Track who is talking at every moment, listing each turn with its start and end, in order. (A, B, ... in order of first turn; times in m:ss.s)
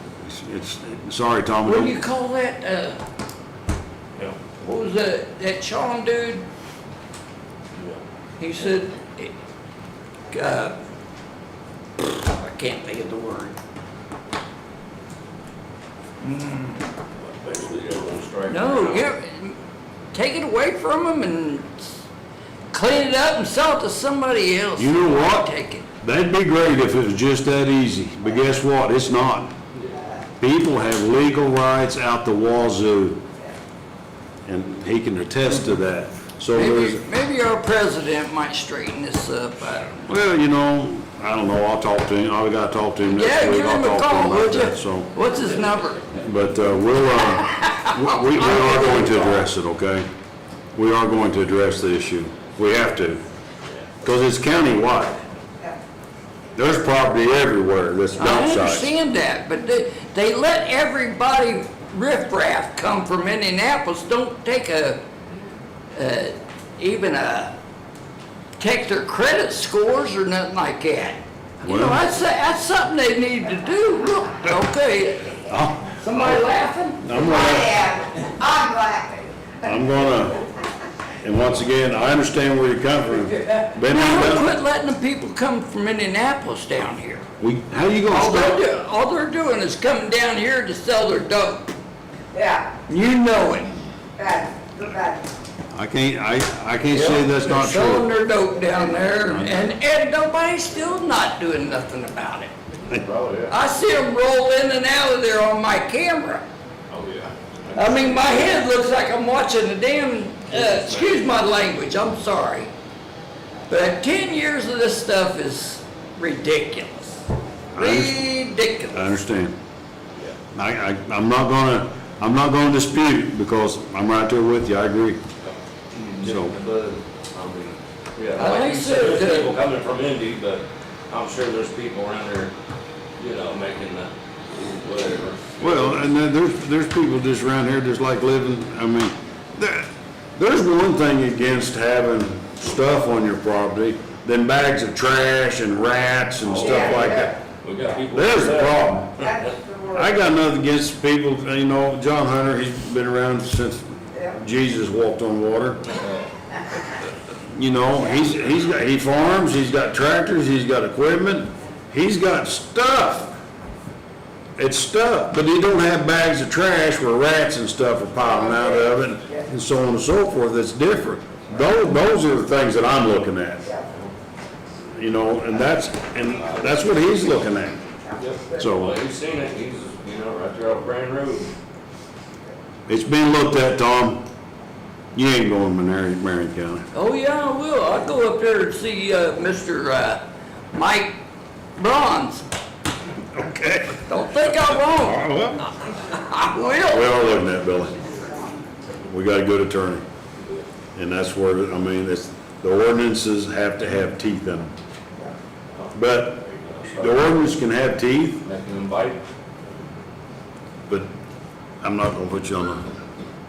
0:00.2-0:02.0 A
0:01.6-0:03.0 B
0:04.6-0:06.4 B
0:07.7-0:08.0 C
0:08.4-0:09.3 B
0:10.3-0:10.8 B
0:12.0-0:13.6 B
0:16.2-0:16.8 B
0:17.2-0:19.1 C
0:18.5-0:19.6 B
0:20.1-0:22.0 B
0:22.7-0:25.9 B
0:24.8-0:25.5 A
0:26.0-0:29.6 A
0:29.9-0:30.2 D
0:30.4-0:33.2 A
0:34.5-0:37.0 A
0:36.5-0:40.0 B
0:40.0-0:45.1 A
0:43.0-0:46.1 B
0:46.2-0:50.1 A
0:47.2-0:49.5 B
0:50.8-0:53.2 A
0:54.0-0:55.2 A
0:56.6-0:58.9 A
0:58.2-1:05.0 B
1:05.9-1:07.5 B
1:08.6-1:15.4 B
1:11.6-1:12.0 A
1:15.4-1:16.4 A
1:16.0-1:19.7 D
1:17.0-1:17.8 A
1:19.6-1:20.4 A
1:21.2-1:24.5 A
1:23.8-1:27.2 B
1:27.4-1:28.6 A
1:28.1-1:31.7 B
1:32.3-1:32.7 D
1:32.9-1:33.8 B
1:34.2-1:35.3 D
1:35.7-1:38.1 A
1:36.9-1:42.5 B
1:39.3-1:39.8 A
1:42.9-1:43.5 C
1:43.5-1:46.4 B
1:46.9-1:48.6 C
1:47.7-1:52.7 B
1:50.5-1:51.3 C
1:53.7-1:57.2 B
1:57.8-1:58.2 A
1:57.8-1:59.1 B
1:58.9-1:59.6 A
2:00.5-2:05.2 A
2:05.4-2:12.5 C
2:06.2-2:06.5 A
2:08.4-2:09.5 B
2:13.2-2:16.0 C
2:15.6-2:27.3 A
2:26.4-2:29.5 C
2:26.6-2:27.4 D
2:28.1-2:29.3 A
2:29.2-2:30.1 D
2:29.9-2:35.8 A
2:37.5-2:43.4 A
2:44.6-2:53.7 A
2:48.2-2:49.5 D
2:54.9-2:57.8 A
2:56.4-2:56.8 C
2:58.0-2:58.7 D
2:58.2-3:01.5 C
2:58.6-2:59.0 A
3:02.9-3:04.3 A
3:05.2-3:06.9 A
3:06.9-3:11.2 B
3:11.8-3:12.5 B
3:13.3-3:15.6 A
3:14.1-3:15.2 B
3:16.0-3:17.1 B
3:16.8-3:18.1 A
3:18.1-3:18.7 D
3:19.1-3:20.0 A
3:20.4-3:20.7 C
3:21.0-3:24.7 A
3:25.7-3:27.4 C
3:25.9-3:28.4 A
3:28.4-3:29.2 C
3:31.8-3:32.9 A